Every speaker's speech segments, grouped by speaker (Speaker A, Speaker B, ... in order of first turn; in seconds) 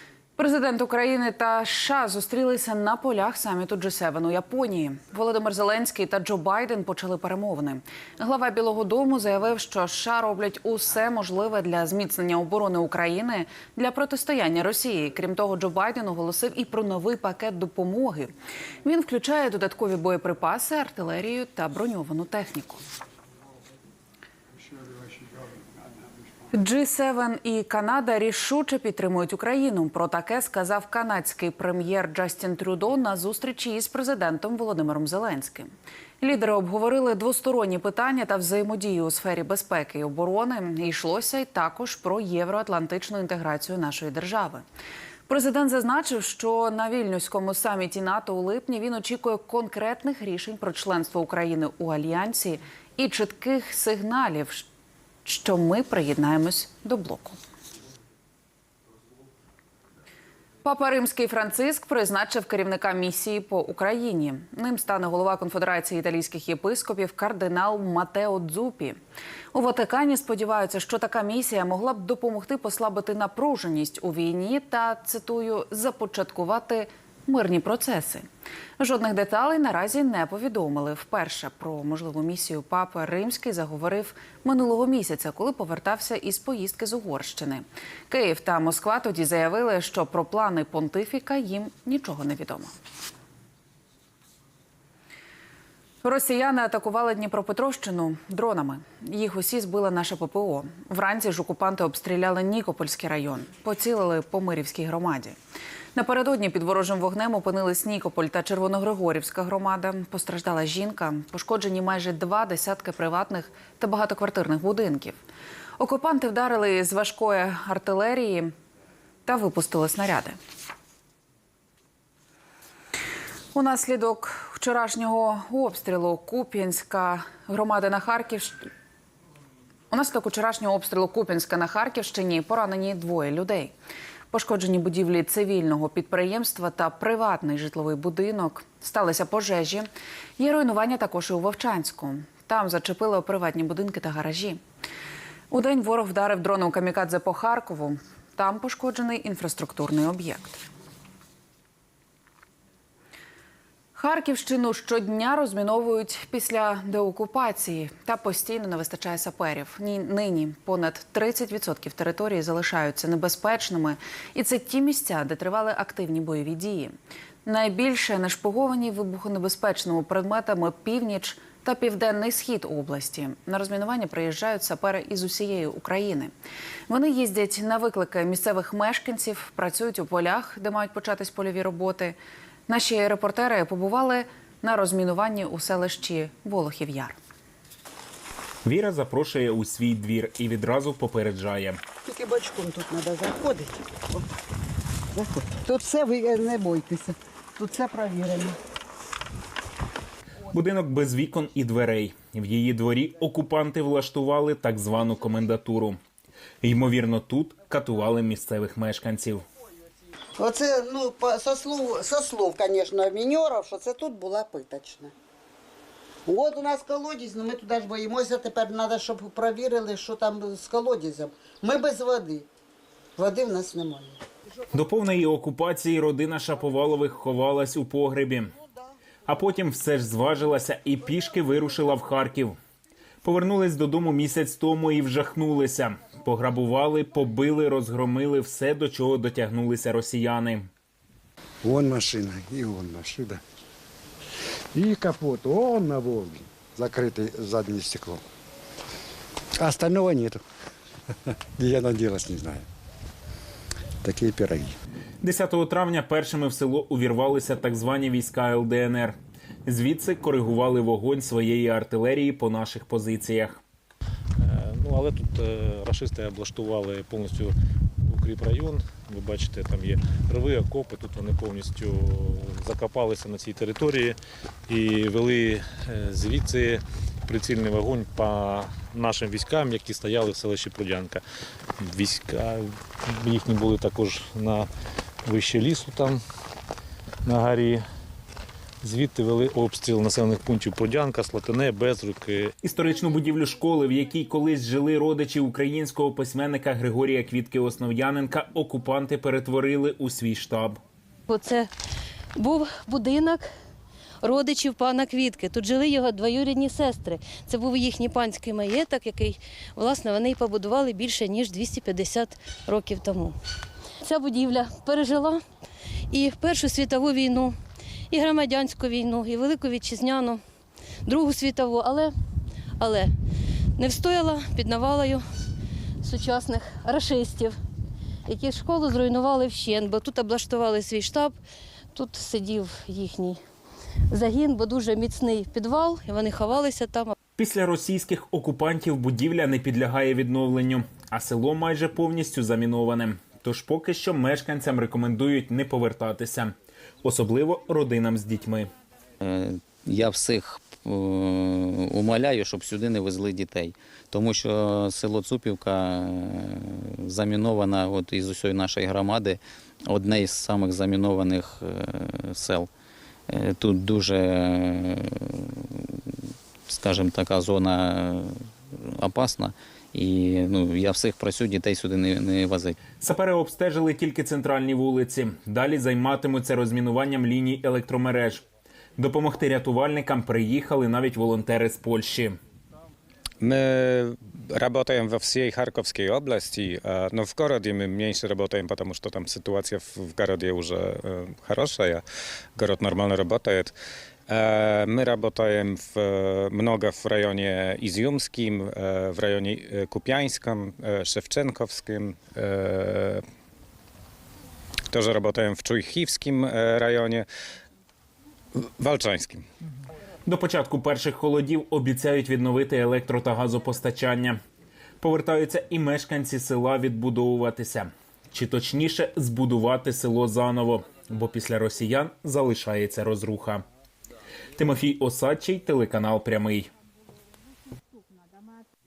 Speaker A: 0.4-18.3, 18.8-22.8, 26.5-44.6, 45.3-54.7, 55.2-57.4, 60.6-69.0, 69.5-78.3, 78.8-92.8, 96.0-105.4, 106.0-115.2, 115.8-118.5, 119.2-120.4, 123.5-128.6, 129.9-133.7, 134.3-144.6, 145.5-150.6, 153.9-176.3, 176.9-182.2, 182.7-187.2
Speaker B: 188.7-191.8, 200.5-206.0, 206.6-209.4, 224.7-228.5, 229.3-232.6, 233.2-240.7, 255.2-263.6, 292.6-300.8, 337.4-346.5, 347.0-348.7, 373.0-378.4, 379.0-382.4, 410.3-414.4, 415.0-423.6, 424.6-426.7
Speaker C: 192.1-194.2, 195.1-198.6, 210.4-215.1, 216.3-222.5, 223.2-224.2
Speaker D: 241.6-243.4, 244.7-248.2, 249.6-250.4, 251.6-252.7, 254.0-254.7
Speaker E: 264.4-267.6, 268.1-274.2, 274.7-281.2, 281.8-284.7, 285.2-286.2, 287.2-287.8, 288.8-292.5
Speaker F: 301.3-301.7, 302.4-303.5, 304.2-313.4, 314.1-315.4, 316.1-317.6, 318.1-320.4, 321.1-322.1, 322.8-323.1, 323.8-325.2, 326.0-327.6, 328.3-331.4, 331.9-333.4, 334.1-337.1
Speaker G: 349.2-362.7, 363.3-365.8, 366.7-372.8
Speaker H: 383.4-392.0, 392.6-393.7, 394.3-403.2, 404.9-407.3, 408.6-409.4